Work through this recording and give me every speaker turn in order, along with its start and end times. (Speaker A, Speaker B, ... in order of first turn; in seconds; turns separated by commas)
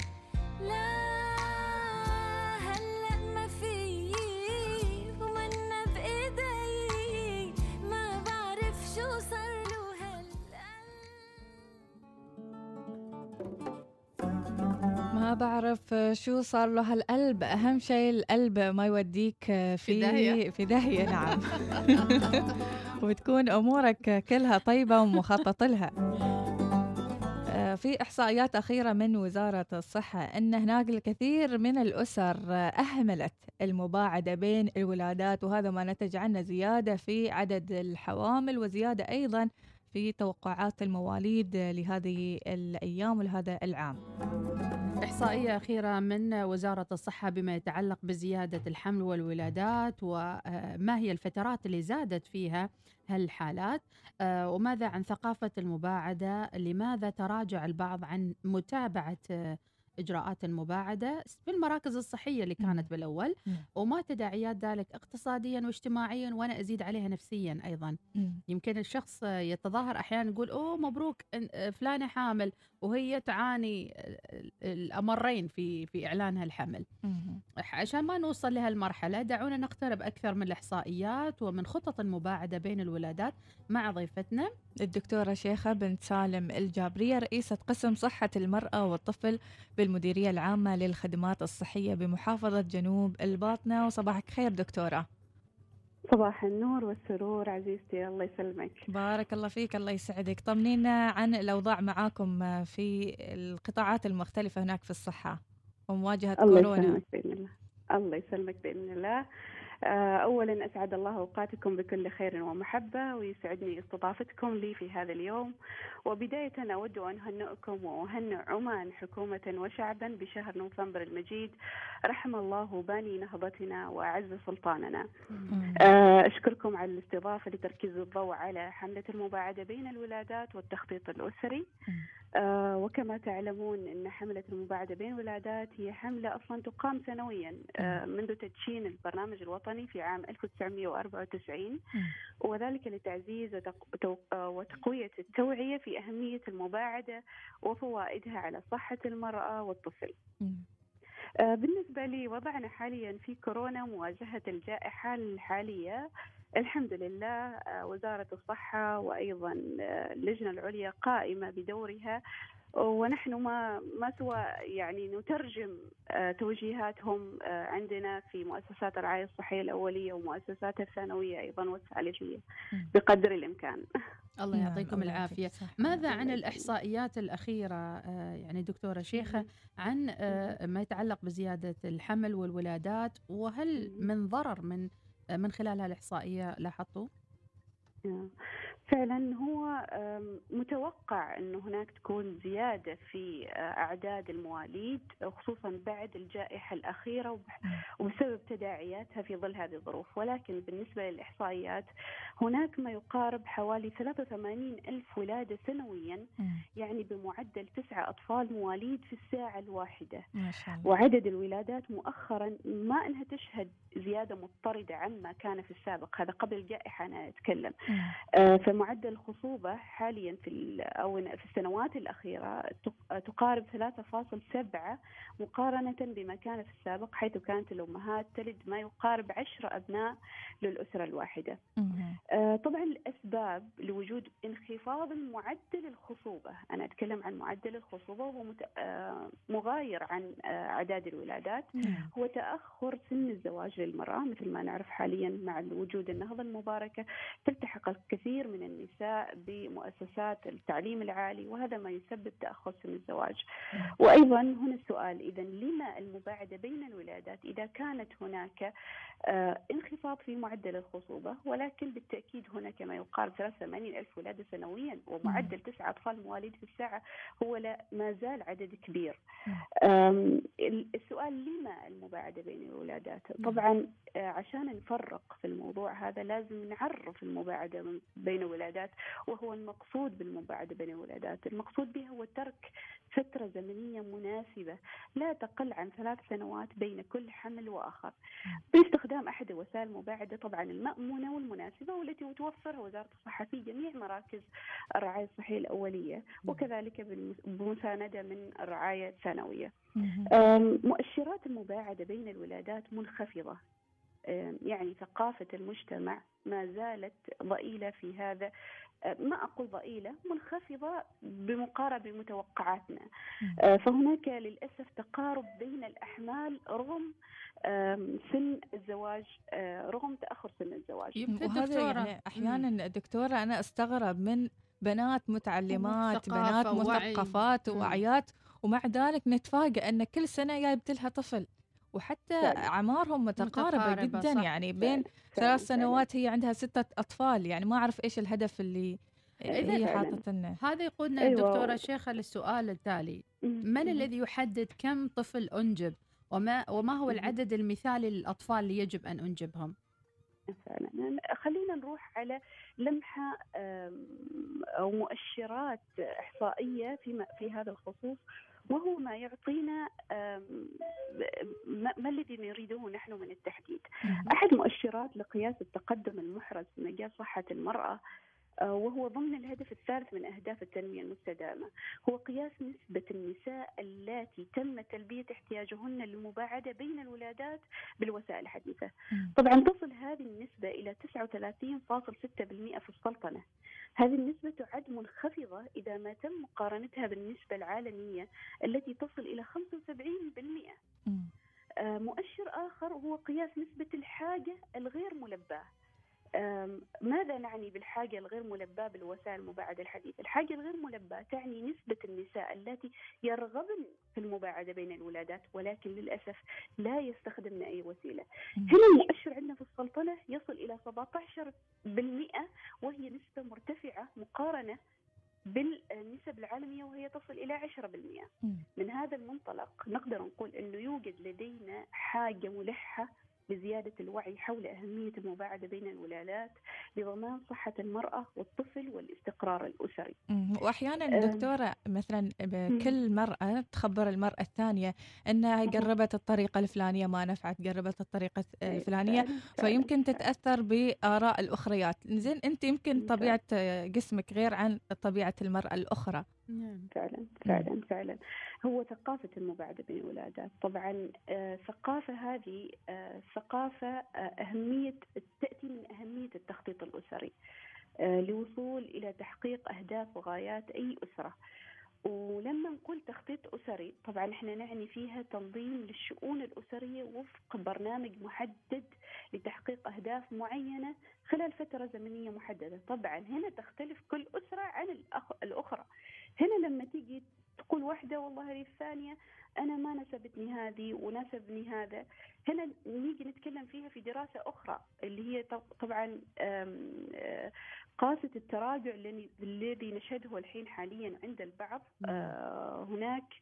Speaker A: 0.6-11.8, Speaker B: 15.1-25.9, Speaker C: 19.9-20.4, Speaker C: 21.1-22.4, Speaker B: 27.5-44.0, Speaker C: 45.0-68.0, Speaker B: 62.6-62.9, Speaker B: 68.2-68.4, Speaker C: 68.5-76.8, Speaker B: 77.0-77.4, Speaker C: 77.6-84.5, Speaker B: 84.8-95.1, Speaker D: 96.1-98.9, Speaker B: 98.9-105.4, Speaker B: 105.9-107.0, Speaker D: 106.4-109.2, Speaker D: 109.9-115.5, Speaker D: 116.1-121.5, Speaker D: 122.1-125.1, Speaker C: 125.3-125.6, Speaker B: 125.5-125.9, Speaker D: 125.8-131.7, Speaker D: 132.4-141.8, Speaker D: 142.4-150.2, Speaker B: 150.4-150.7, Speaker D: 151.4-156.0, Speaker D: 156.6-162.2, Speaker D: 162.8-173.8, Speaker C: 174.4-184.9, Speaker B: 174.5-176.0, Speaker D: 176.1-176.7, Speaker D: 179.2-179.5, Speaker D: 180.3-180.6, Speaker D: 183.8-184.1, Speaker C: 185.4-187.1, Speaker D: 188.1-188.3, Speaker D: 188.9-201.9, Speaker D: 202.4-206.2, Speaker D: 206.8-210.2, Speaker B: 210.4-210.9, Speaker D: 210.8-217.8, Speaker B: 217.9-218.2, Speaker D: 218.4-231.6, Speaker B: 231.8-232.2, Speaker D: 232.3-253.4, Speaker B: 241.8-242.1, Speaker D: 254.0-258.7, Speaker D: 259.3-269.2, Speaker B: 265.2-265.5, Speaker D: 269.8-288.2, Speaker D: 288.7-294.5, Speaker D: 295.0-299.7, Speaker B: 300.0-300.3, Speaker D: 300.3-303.6, Speaker D: 304.3-308.5, Speaker D: 309.1-313.1, Speaker D: 313.6-317.1, Speaker D: 317.7-321.2, Speaker C: 321.2-322.7, Speaker B: 321.4-340.6, Speaker C: 325.8-328.0, Speaker C: 333.4-334.5, Speaker D: 334.8-336.1, Speaker D: 339.5-340.2, Speaker C: 340.6-349.7, Speaker D: 341.2-341.8, Speaker D: 343.5-344.1, Speaker D: 347.1-347.4, Speaker D: 350.5-368.0, Speaker B: 364.1-364.3, Speaker D: 368.7-383.4, Speaker D: 384.0-390.8, Speaker D: 391.8-395.7, Speaker D: 396.4-414.8, Speaker D: 415.5-430.2, Speaker B: 430.3-446.2, Speaker D: 431.1-431.5, Speaker D: 438.7-440.2, Speaker D: 443.0-443.4, Speaker C: 446.5-446.9, Speaker D: 446.9-457.3, Speaker D: 458.1-461.4, Speaker D: 462.1-475.9, Speaker D: 476.4-493.3, Speaker C: 492.0-492.3